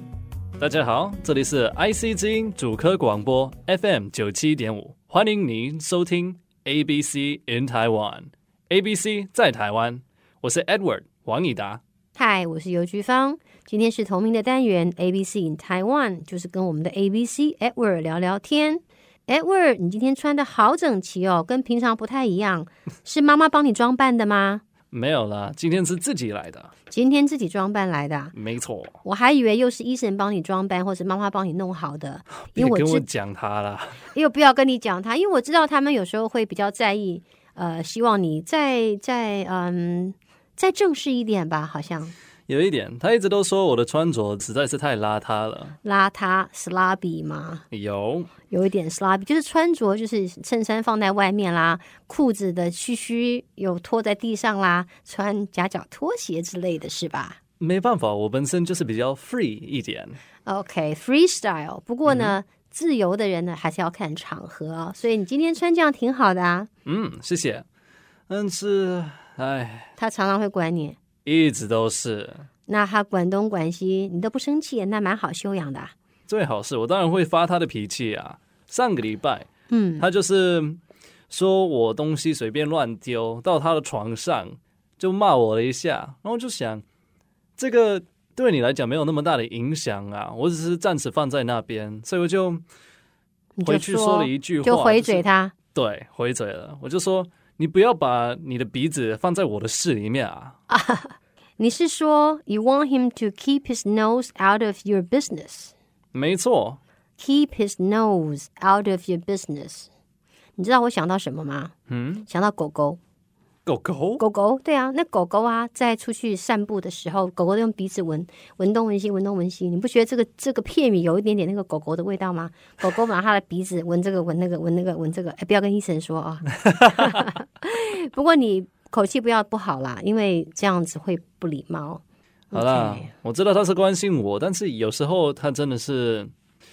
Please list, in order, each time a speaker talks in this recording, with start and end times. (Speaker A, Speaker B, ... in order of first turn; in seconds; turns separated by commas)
Speaker A: 0.6-11.8, Speaker B: 12.1-24.6, Speaker A: 24.9-26.7, Speaker B: 26.9-28.3, Speaker A: 28.3-29.0, Speaker B: 29.0-33.0, Speaker A: 32.4-34.1, Speaker B: 34.1-42.1, Speaker A: 42.5-45.8, Speaker B: 45.8-47.6, Speaker A: 47.7-48.3, Speaker B: 48.5-57.4, Speaker A: 57.6-60.2, Speaker B: 60.4-66.7, Speaker A: 62.0-62.4, Speaker A: 66.8-67.6, Speaker A: 68.3-69.9, Speaker B: 70.0-71.0, Speaker A: 71.2-72.5, Speaker B: 72.7-75.9, Speaker A: 76.3-79.5, Speaker B: 79.7-80.1, Speaker A: 80.0-86.8, Speaker A: 87.6-92.6, Speaker B: 93.5-95.5, Speaker A: 93.6-100.5, Speaker B: 100.7-105.7, Speaker A: 106.1-106.8, Speaker B: 107.2-109.9, Speaker B: 110.6-111.7, Speaker A: 111.9-112.3, Speaker B: 112.3-113.0, Speaker A: 113.7-114.2, Speaker B: 114.2-133.1, Speaker A: 126.7-127.2, Speaker A: 132.5-136.3